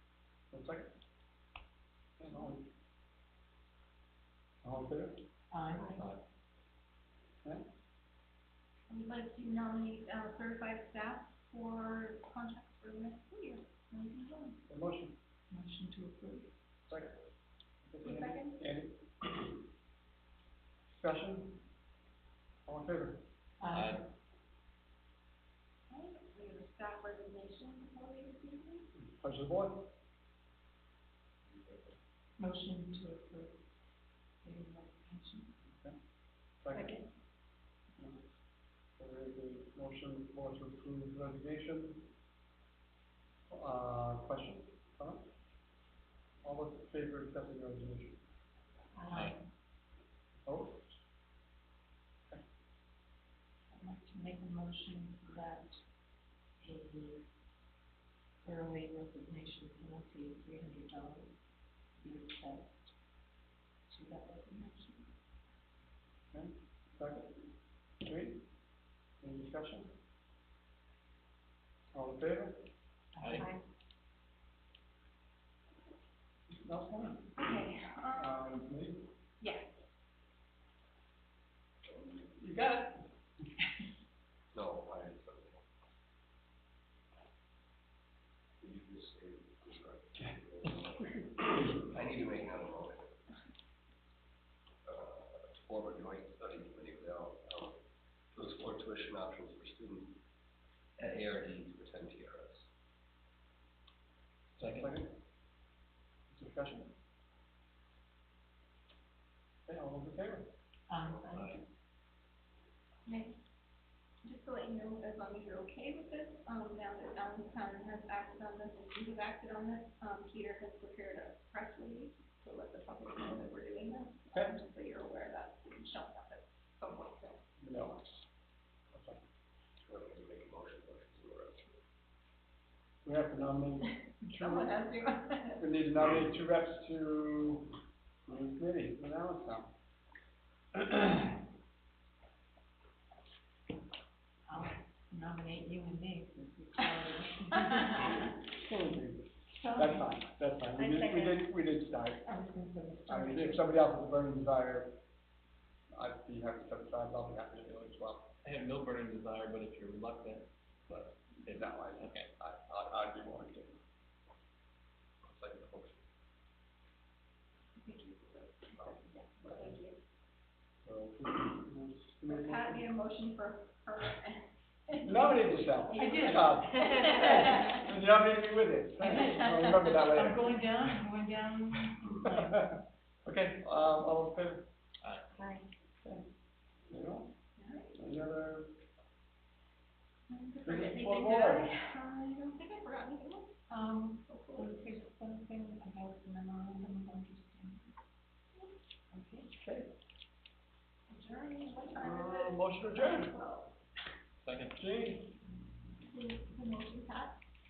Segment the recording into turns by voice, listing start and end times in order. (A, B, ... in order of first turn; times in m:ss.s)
0:00.5-0:00.9 A
0:02.2-0:02.6 A
0:04.6-0:05.2 A
0:05.5-0:06.0 B
0:05.7-0:06.2 C
0:08.9-0:14.6 D
0:14.7-0:15.1 A
0:15.5-0:16.5 B
0:16.9-0:17.2 A
0:17.8-0:19.6 A
0:18.0-0:18.6 D
0:20.9-0:21.6 A
0:22.7-0:23.2 A
0:23.6-0:24.1 B
0:23.7-0:24.0 C
0:25.9-0:28.9 D
0:29.0-0:29.9 A
0:32.4-0:33.6 B
0:34.4-0:35.5 B
0:35.7-0:36.0 A
0:36.6-0:37.0 A
0:36.7-0:37.1 D
0:38.0-0:38.3 A
0:39.0-0:42.1 A
0:43.5-0:45.2 A
0:46.4-0:48.2 A
0:48.9-0:49.5 B
0:50.5-0:51.0 A
0:53.7-0:55.8 B
0:56.6-0:57.2 B
0:58.4-1:01.3 B
1:02.0-1:02.9 B
1:03.9-1:05.1 B
1:06.3-1:07.4 A
1:08.0-1:08.4 A
1:09.2-1:09.9 A
1:11.9-1:12.6 A
1:13.2-1:13.5 B
1:13.2-1:13.5 C
1:16.5-1:17.6 A
1:17.4-1:18.4 D
1:18.2-1:19.1 A
1:19.4-1:19.7 D
1:22.2-1:23.1 A
1:24.5-1:25.6 E
1:28.6-1:33.2 E
1:34.8-1:37.8 E
1:38.3-1:40.2 E
1:41.0-1:42.7 E
1:44.6-1:45.1 A
1:44.6-1:44.9 C
1:46.3-1:46.9 A
1:49.7-1:50.5 A
1:50.9-1:51.6 B
1:51.0-1:51.3 E
1:51.3-1:51.6 C
1:53.1-1:53.4 D
1:54.2-2:07.4 D
2:04.3-2:04.6 A
2:07.6-2:08.3 A
2:08.9-2:09.2 A
2:09.9-2:11.8 E
2:13.0-2:14.8 A
2:14.2-2:15.6 D
2:15.6-2:19.7 A
2:20.8-2:21.2 A
2:24.5-2:28.3 B
2:28.5-2:32.3 A
2:29.5-2:31.5 B
2:32.2-2:33.7 B
2:33.1-2:34.9 A
2:35.9-2:38.3 A
2:38.4-2:40.5 C
2:40.9-2:43.8 A
2:42.0-2:42.3 C
2:47.8-2:50.0 D
2:49.4-2:49.8 A
2:50.8-2:52.9 A
2:52.3-2:57.8 D
2:55.0-3:00.5 A
2:56.0-2:56.8 B
2:59.0-3:02.7 B
2:59.3-2:59.7 D
3:02.1-3:04.7 A
3:06.9-3:07.3 A
3:07.6-3:07.9 D
3:07.9-3:08.7 A
3:10.3-3:13.6 D
3:10.6-3:11.7 A
3:13.7-3:17.9 B
3:14.3-3:15.0 D
3:19.1-3:19.5 B
3:19.6-3:19.9 A
3:21.1-3:23.7 D
3:22.0-3:23.4 A
3:24.4-3:24.9 C
3:24.8-3:25.3 A
3:26.0-3:27.4 D